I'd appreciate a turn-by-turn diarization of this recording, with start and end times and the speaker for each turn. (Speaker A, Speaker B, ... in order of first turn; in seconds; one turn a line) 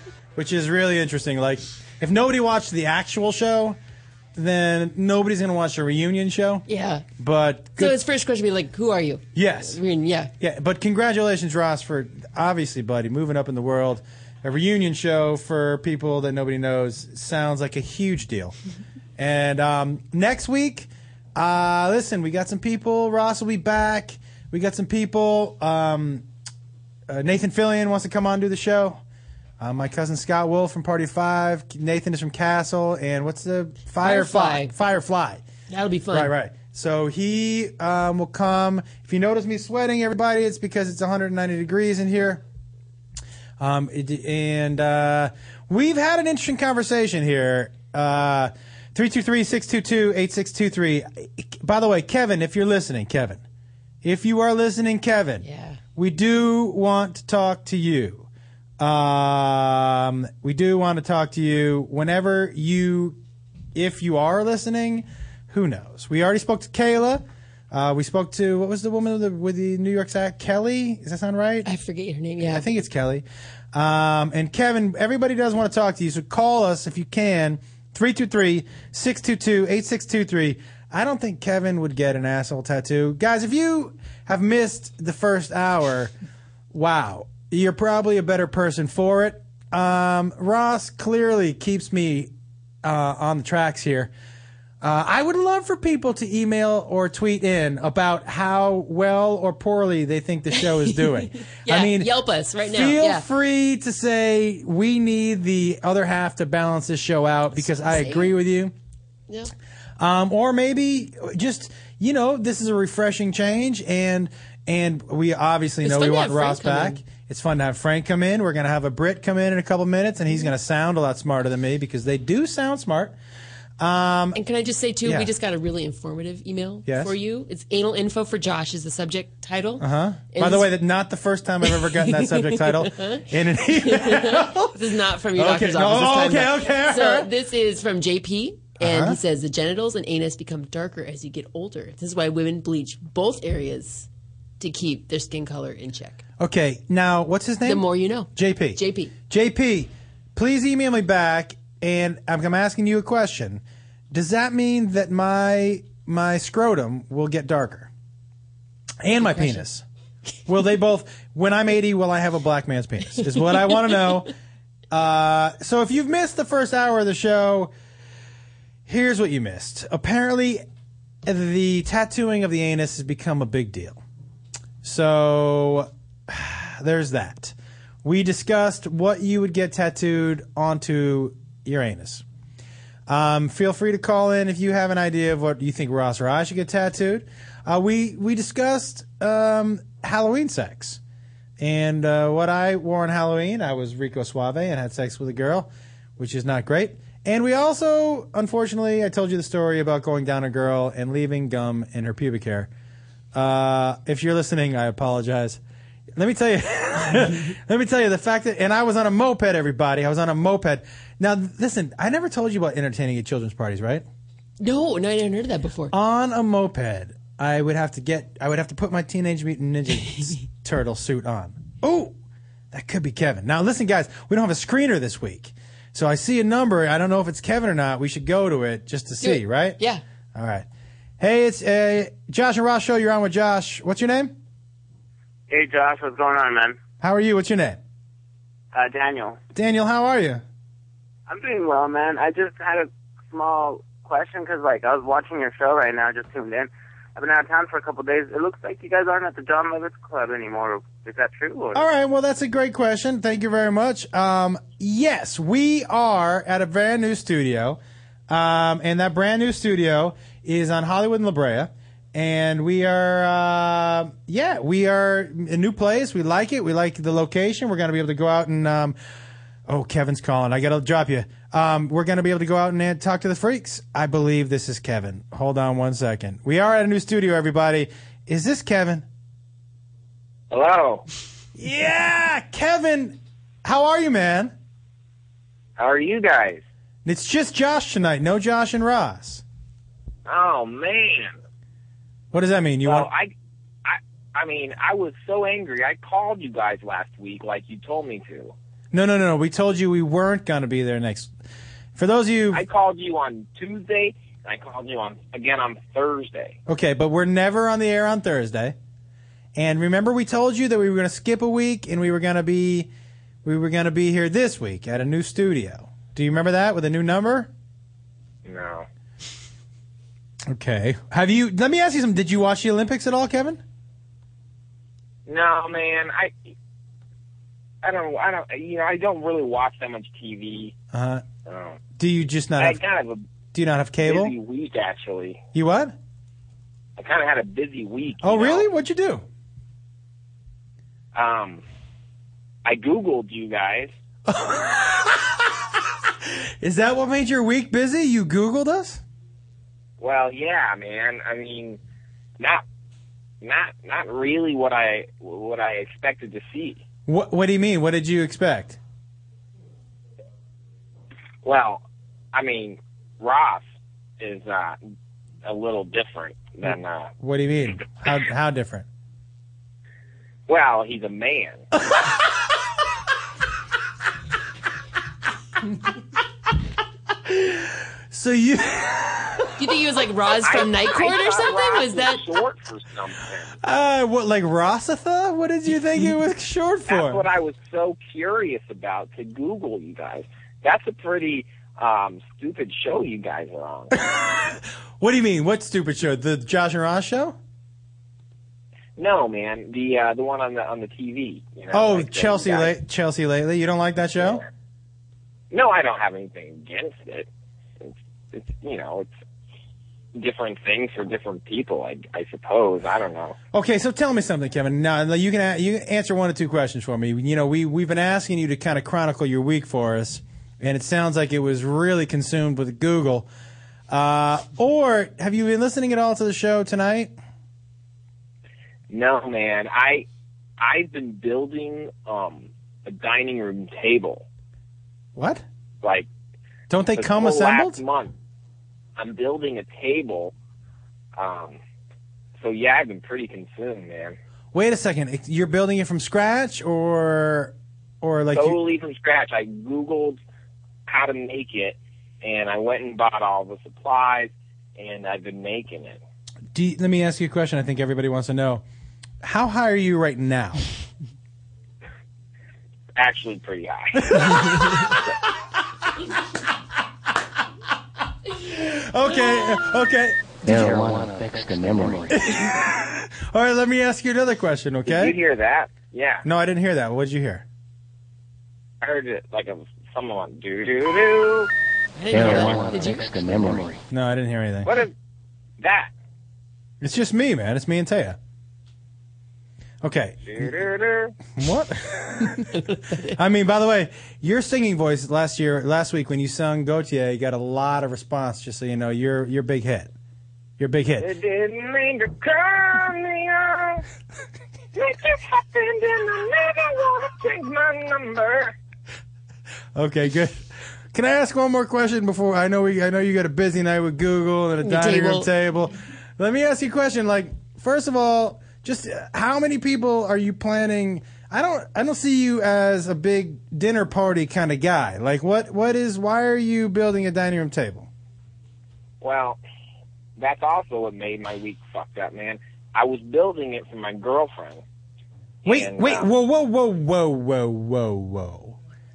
Speaker A: 0.3-3.8
Speaker A: 4.3-6.6
Speaker B: 6.7-7.0
Speaker A: 7.2-8.0
Speaker B: 7.8-10.3
Speaker A: 9.3-9.8
Speaker A: 10.4-18.5
Speaker A: 19.2-26.2
Speaker A: 27.1-29.0
Speaker A: 29.6-35.4
Speaker B: 34.0-34.7
Speaker B: 35.7-36.3
Speaker A: 36.1-42.4
Speaker A: 43.6-53.4
Speaker A: 54.0-58.3
Speaker B: 55.4-55.8
Speaker A: 58.8-63.2
Speaker A: 63.7-71.7
Speaker B: 71.6-72.7
Speaker A: 72.4-86.1
Speaker A: 86.7-92.3
Speaker A: 92.8-94.1
Speaker A: 94.8-102.1
Speaker B: 100.5-103.2
Speaker A: 102.7-108.7
Speaker B: 107.5-108.3
Speaker A: 110.0-123.2
Speaker B: 115.8-117.0
Speaker A: 123.8-124.4
Speaker B: 124.3-130.8
Speaker A: 125.0-125.3
Speaker A: 126.8-127.1
Speaker A: 129.8-134.8
Speaker B: 131.6-144.1
Speaker A: 135.3-137.3
Speaker A: 138.8-139.2
Speaker B: 144.6-146.2
Speaker A: 146.4-157.9
Speaker B: 147.6-149.1
Speaker A: 159.0-159.8
Speaker B: 159.1-159.6
Speaker A: 160.5-164.3
Speaker A: 164.9-167.7
Speaker A: 168.8-170.6
Speaker A: 171.2-174.0
Speaker A: 174.8-182.2
Speaker A: 183.1-191.0
Speaker A: 191.6-202.7
Speaker A: 203.3-205.6
Speaker A: 206.2-214.0
Speaker B: 214.6-215.9
Speaker A: 215.9-222.1
Speaker A: 222.7-229.8
Speaker B: 229.2-230.0
Speaker A: 230.3-230.7
Speaker A: 231.2-234.3
Speaker C: 235.5-236.8
Speaker A: 237.0-237.8
Speaker C: 238.7-239.4
Speaker A: 239.5-240.4
Speaker C: 241.3-251.8
Speaker A: 251.7-268.9
Speaker A: 269.7-279.0
Speaker D: 280.5-281.0
Speaker A: 281.6-284.5
Speaker D: 285.8-286.6
Speaker A: 287.0-289.4
Speaker D: 290.2-291.4
Speaker A: 292.3-293.1
Speaker D: 292.8-293.3
Speaker D: 293.8-298.5
Speaker A: 298.9-301.3
Speaker A: 301.9-302.6
Speaker D: 302.5-306.6
Speaker A: 306.7-308.7
Speaker A: 309.5-312.9
Speaker A: 313.4-317.5
Speaker D: 318.4-318.9
Speaker A: 320.5-323.6
Speaker D: 325.3-326.5
Speaker D: 327.8-330.7
Speaker A: 330.9-331.2
Speaker D: 331.4-331.9
Speaker A: 331.9-332.8
Speaker D: 332.6-333.2
Speaker A: 333.5-334.3
Speaker D: 334.0-335.4
Speaker A: 335.5-335.9
Speaker D: 337.0-338.7
Speaker A: 338.2-339.2
Speaker D: 341.1-341.6
Speaker D: 342.6-343.9
Speaker A: 344.3-345.6
Speaker A: 346.2-349.0
Speaker D: 350.0-351.8
Speaker D: 353.4-356.8
Speaker A: 357.1-358.8
Speaker D: 361.4-363.6
Speaker D: 364.2-364.8
Speaker D: 365.4-367.1
Speaker A: 367.2-368.9
Speaker D: 370.5-371.6
Speaker A: 377.2-379.5
Speaker B: 379.6-382.3
Speaker D: 380.4-383.6
Speaker A: 383.6-387.2
Speaker D: 386.9-393.9
Speaker A: 393.9-397.4
Speaker D: 399.0-402.7
Speaker A: 401.7-404.4
Speaker D: 404.2-404.5
Speaker D: 405.5-407.3
Speaker D: 407.8-409.1
Speaker D: 410.1-413.4
Speaker A: 413.5-423.3
Speaker A: 423.9-427.1
Speaker D: 428.9-430.0
Speaker D: 430.6-434.2
Speaker A: 435.1-435.4
Speaker A: 436.7-437.8
Speaker D: 436.9-438.1
Speaker D: 439.0-440.3
Speaker D: 441.1-441.6
Speaker D: 442.4-444.1
Speaker A: 444.5-448.6
Speaker D: 448.3-450.2
Speaker D: 450.9-456.0
Speaker A: 456.5-458.6
Speaker A: 459.2-460.6
Speaker D: 463.0-464.9
Speaker A: 464.0-464.9
Speaker A: 468.4-471.0
Speaker E: 470.4-472.1
Speaker A: 472.1-475.1
Speaker D: 474.9-476.2
Speaker A: 476.2-477.4
Speaker D: 478.8-481.5
Speaker B: 481.9-483.0
Speaker E: 482.1-483.8
Speaker A: 483.9-484.7
Speaker D: 484.6-484.9
Speaker D: 485.6-485.9
Speaker A: 486.8-488.2
Speaker A: 489.8-490.5
Speaker D: 490.2-491.2
Speaker A: 491.4-492.6
Speaker B: 492.5-493.1
Speaker A: 493.1-499.9
Speaker A: 500.6-501.1
Speaker D: 501.0-503.8
Speaker D: 504.8-508.5
Speaker A: 509.7-510.4
Speaker A: 510.9-527.9
Speaker B: 514.6-515.3
Speaker D: 529.0-529.4
Speaker D: 530.2-534.6
Speaker D: 535.4-536.1
Speaker A: 535.5-538.5